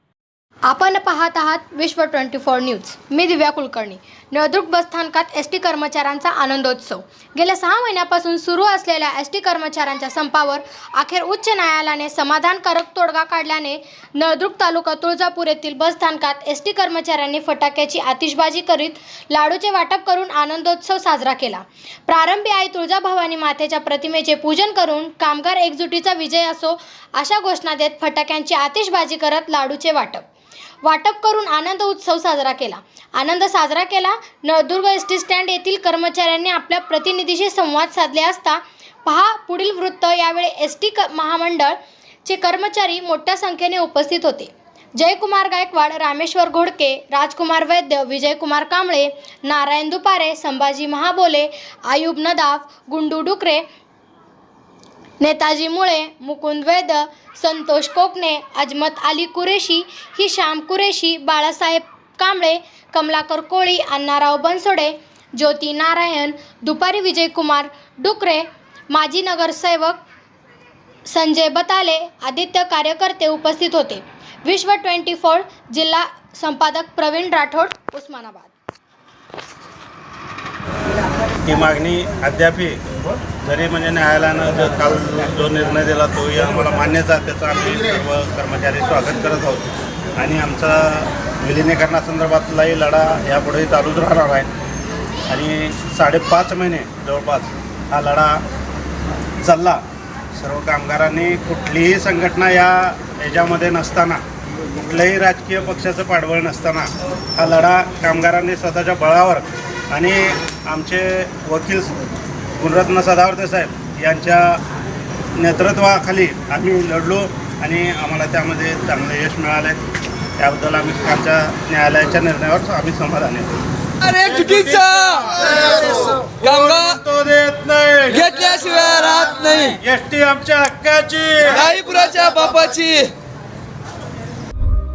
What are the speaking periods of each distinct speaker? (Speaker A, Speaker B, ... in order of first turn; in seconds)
Speaker A: 0.7-30.2, 30.8-53.6, 55.2-70.0, 71.1-78.5
Speaker B: 81.4-94.5, 95.3-98.4, 99.4-104.2, 104.7-112.0, 112.6-114.6, 115.3-119.8, 120.4-123.5, 124.2-128.4, 129.7-131.7
Speaker C: 124.0-125.7, 126.3-127.0, 128.1-129.8, 131.6-133.1